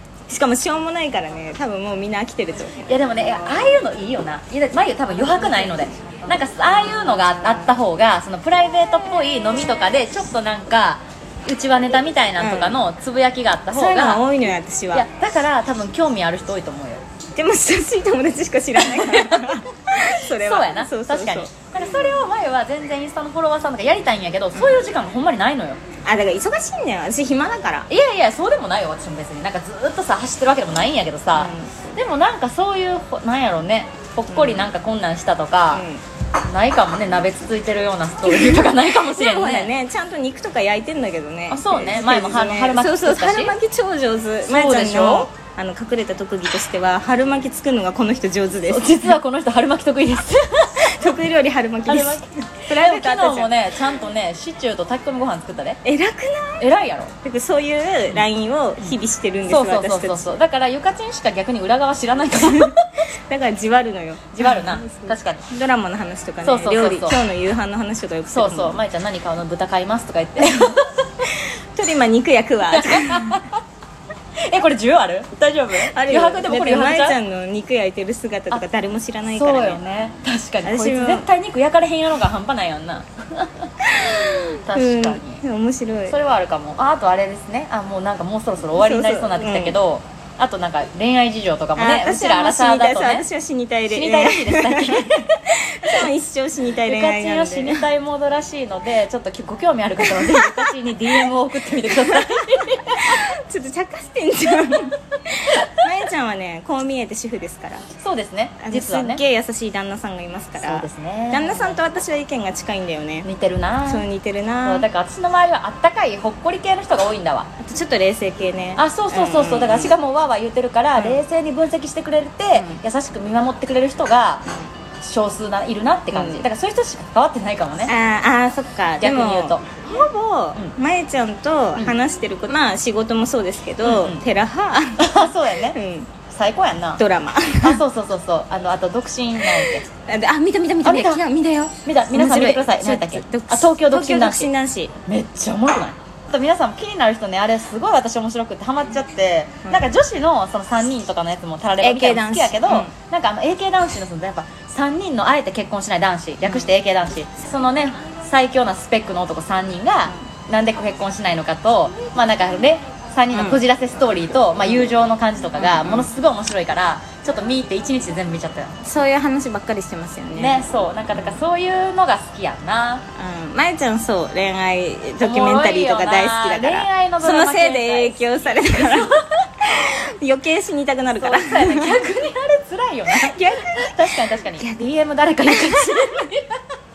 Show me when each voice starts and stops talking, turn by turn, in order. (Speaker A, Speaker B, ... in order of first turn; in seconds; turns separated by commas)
Speaker A: 0.3-2.8, Speaker B: 2.9-14.2, Speaker A: 12.4-12.8, Speaker A: 13.7-15.1, Speaker B: 14.9-17.0, Speaker A: 17.3-21.5, Speaker B: 18.8-19.6, Speaker B: 20.2-25.8, Speaker A: 24.5-24.8, Speaker A: 26.0-27.9, Speaker B: 27.9-35.9, Speaker A: 31.3-32.0, Speaker A: 34.3-34.7, Speaker A: 35.7-36.0, Speaker B: 36.5-39.7, Speaker A: 38.2-49.2, Speaker B: 41.5-43.6, Speaker B: 44.5-45.3, Speaker B: 48.6-51.1, Speaker A: 50.8-53.7, Speaker B: 51.9-55.8, Speaker A: 55.8-56.7, Speaker B: 56.6-57.1, Speaker A: 57.2-60.3, Speaker B: 58.8-62.9, Speaker A: 62.4-62.7, Speaker A: 63.3-68.8, Speaker B: 64.3-65.4, Speaker B: 66.4-67.2, Speaker B: 68.3-71.2, Speaker A: 70.4-70.6, Speaker A: 71.2-73.4, Speaker B: 72.7-73.6, Speaker B: 74.4-77.2, Speaker A: 75.8-79.8, Speaker B: 79.3-83.7, Speaker A: 80.6-81.3, Speaker A: 83.8-86.2, Speaker B: 84.7-85.4, Speaker B: 86.1-93.3, Speaker A: 88.8-89.8, Speaker A: 91.8-97.8, Speaker B: 93.9-96.1, Speaker B: 96.8-103.2, Speaker A: 100.0-100.7, Speaker A: 101.9-102.2, Speaker A: 103.0-107.9, Speaker B: 108.0-109.2, Speaker A: 108.6-113.3, Speaker B: 110.6-111.8, Speaker B: 113.2-114.0, Speaker A: 113.8-114.8, Speaker B: 114.6-117.5, Speaker A: 117.6-119.9, Speaker B: 118.8-124.5, Speaker A: 121.0-121.2, Speaker A: 122.5-122.8, Speaker B: 125.0-127.9, Speaker A: 126.1-126.5, Speaker A: 127.8-136.1, Speaker B: 129.0-129.6, Speaker B: 133.8-134.2, Speaker B: 135.0-135.8, Speaker B: 136.3-137.0, Speaker A: 137.0-137.8, Speaker B: 137.6-139.8, Speaker A: 139.4-144.9, Speaker B: 140.8-141.2, Speaker B: 141.8-144.5, Speaker B: 145.1-168.8, Speaker A: 149.6-149.9, Speaker A: 151.8-152.9, Speaker A: 156.4-156.7, Speaker A: 163.3-163.6, Speaker A: 165.6-166.1, Speaker A: 168.8-171.4, Speaker B: 170.4-173.0, Speaker A: 173.1-182.0, Speaker B: 175.2-179.2, Speaker B: 181.2-186.6, Speaker A: 183.1-184.9, Speaker A: 185.4-186.1